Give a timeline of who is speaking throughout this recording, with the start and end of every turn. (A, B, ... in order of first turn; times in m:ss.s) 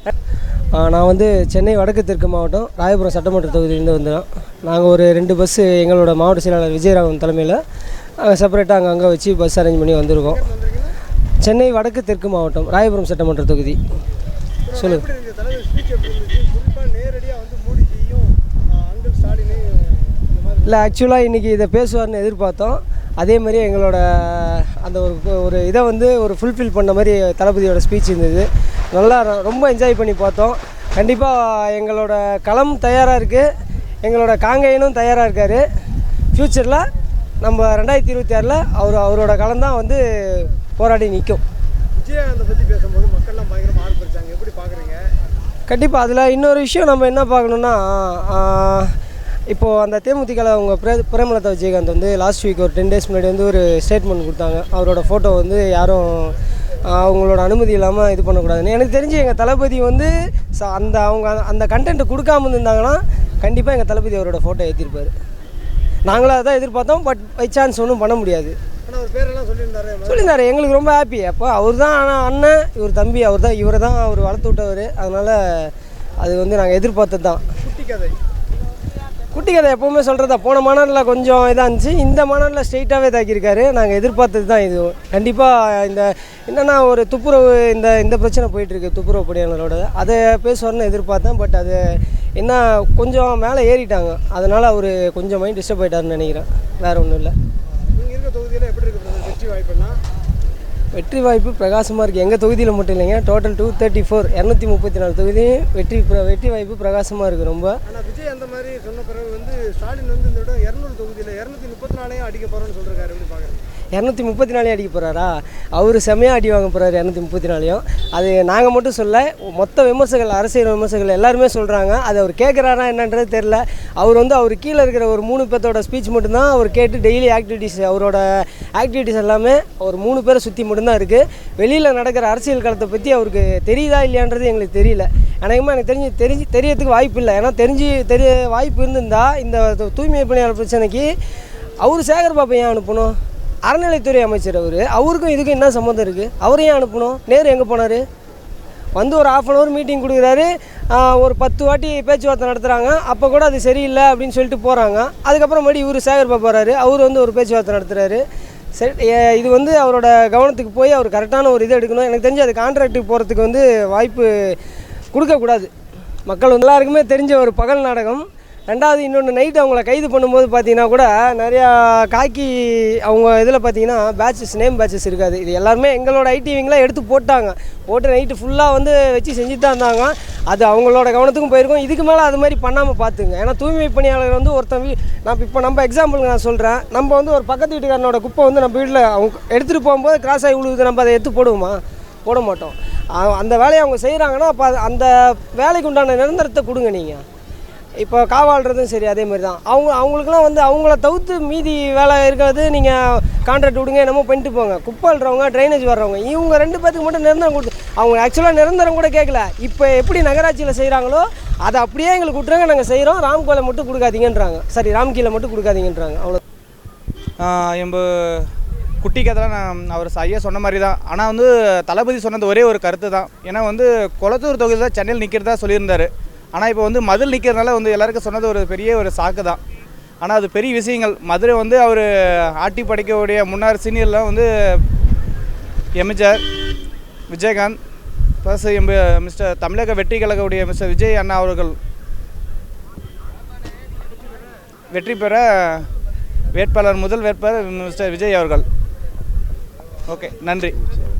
0:00.7-0:07.6 A
0:08.2-0:10.4 A
0:10.3-0:11.0 B
0:11.4-0:13.8 A
0:14.7-0:20.9 B
0:14.8-0:15.0 A
0:20.6-0:33.5 A
0:34.0-0:35.6 A
0:36.3-0:36.9 A
0:37.4-0:41.4 A
0:42.0-0:45.0 B
0:45.7-0:48.9 A
0:49.5-1:05.1 A
1:06.0-1:08.6 A
1:08.9-1:10.3 B
1:10.1-1:17.4 A
1:17.6-1:18.1 B
1:19.3-1:37.3 A
1:37.8-1:40.0 B
1:40.9-1:47.8 A
1:47.9-1:53.6 B
1:53.9-2:21.1 A
2:21.8-2:23.1 A
2:23.7-2:28.0 A
2:29.0-2:38.2 A
2:38.8-2:44.6 A
2:45.1-2:45.7 A
2:46.3-3:17.2 A
3:18.0-3:36.4 A
3:37.4-3:38.5 C
3:39.0-3:49.6 C
3:50.2-3:54.8 C
3:56.0-3:56.4 C
3:57.3-3:57.8 C
3:58.4-4:01.8 C
4:04.9-4:05.9 C
4:06.5-4:08.6 C
4:10.1-4:10.8 C